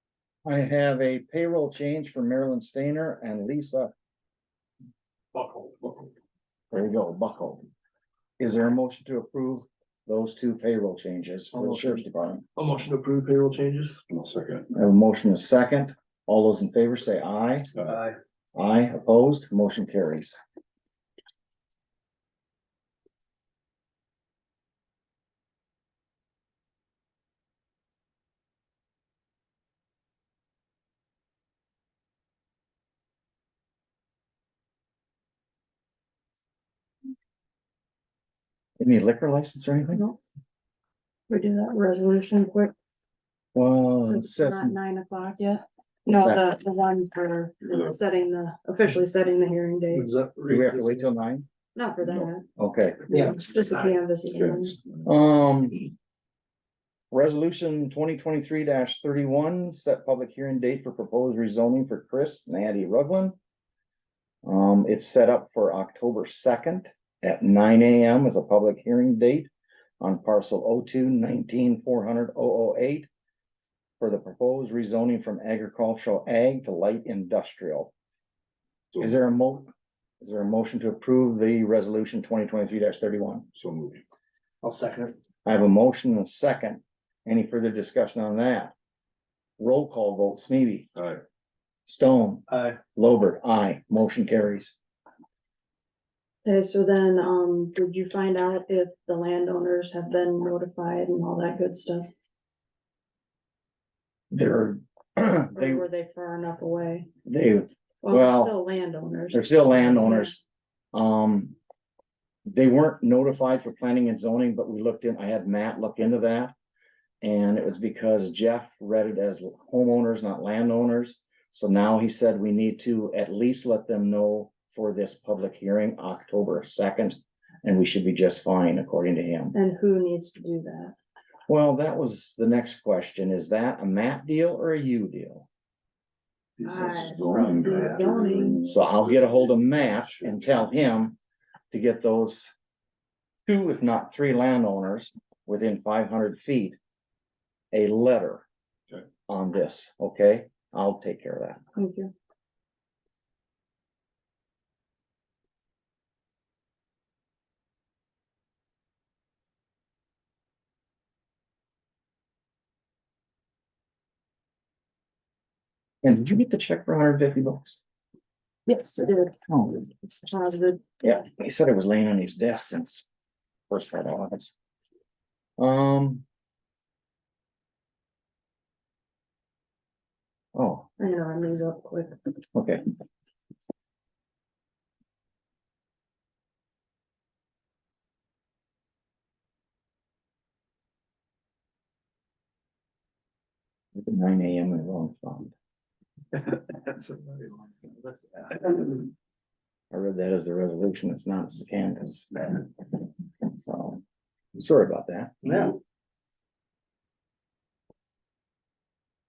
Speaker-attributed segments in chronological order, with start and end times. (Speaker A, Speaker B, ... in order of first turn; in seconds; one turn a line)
Speaker A: 0.4-3.9
Speaker B: 5.3-6.0
Speaker A: 6.7-7.6
Speaker A: 8.4-12.4
Speaker B: 11.5-12.0
Speaker B: 12.6-14.0
Speaker C: 14.1-14.7
Speaker A: 14.7-17.7
Speaker B: 17.8-18.1
Speaker A: 18.6-20.4
Speaker A: 38.8-40.0
Speaker D: 41.3-42.7
Speaker A: 43.5-44.8
Speaker D: 44.0-50.1
Speaker A: 46.1-46.4
Speaker C: 47.7-48.0
Speaker B: 49.9-51.0
Speaker A: 50.5-51.5
Speaker D: 51.7-52.4
Speaker C: 52.0-52.3
Speaker A: 52.6-53.1
Speaker B: 53.1-53.9
Speaker D: 53.1-54.8
Speaker C: 54.3-55.1
Speaker A: 55.0-55.9
Speaker A: 57.1-63.3
Speaker A: 64.4-73.1
Speaker A: 74.0-77.9
Speaker A: 79.0-79.7
Speaker A: 80.2-83.5
Speaker C: 83.5-84.0
Speaker B: 84.6-85.1
Speaker A: 85.5-88.7
Speaker A: 89.6-90.9
Speaker C: 90.9-91.2
Speaker A: 91.9-94.8
Speaker B: 92.5-92.8
Speaker D: 96.4-102.1
Speaker A: 104.3-105.8
Speaker D: 105.5-107.1
Speaker A: 107.2-108.5
Speaker D: 108.0-110.3
Speaker A: 109.3-110.4
Speaker A: 110.9-111.5
Speaker A: 112.5-116.5
Speaker A: 117.2-129.6
Speaker D: 129.5-130.9
Speaker A: 131.5-135.5
Speaker C: 136.6-140.6
Speaker D: 136.7-138.7
Speaker B: 137.2-138.1
Speaker A: 138.7-141.1
Speaker A: 141.7-142.5
Speaker A: 143.4-146.8
Speaker A: 147.7-148.4
Speaker A: 149.3-151.6
Speaker D: 151.8-152.1
Speaker A: 166.0-167.8
Speaker D: 168.7-169.3
Speaker A: 169.5-169.8
Speaker D: 169.9-171.0
Speaker A: 171.0-173.1
Speaker A: 173.7-174.5
Speaker A: 175.6-176.2
Speaker A: 180.5-180.9
Speaker D: 181.0-182.1
Speaker A: 182.5-182.8
Speaker A: 193.9-195.5
Speaker B: 196.9-197.4
Speaker B: 198.0-198.8
Speaker A: 199.9-202.6
Speaker A: 203.6-204.0
Speaker A: 204.5-205.3
Speaker B: 205.4-205.8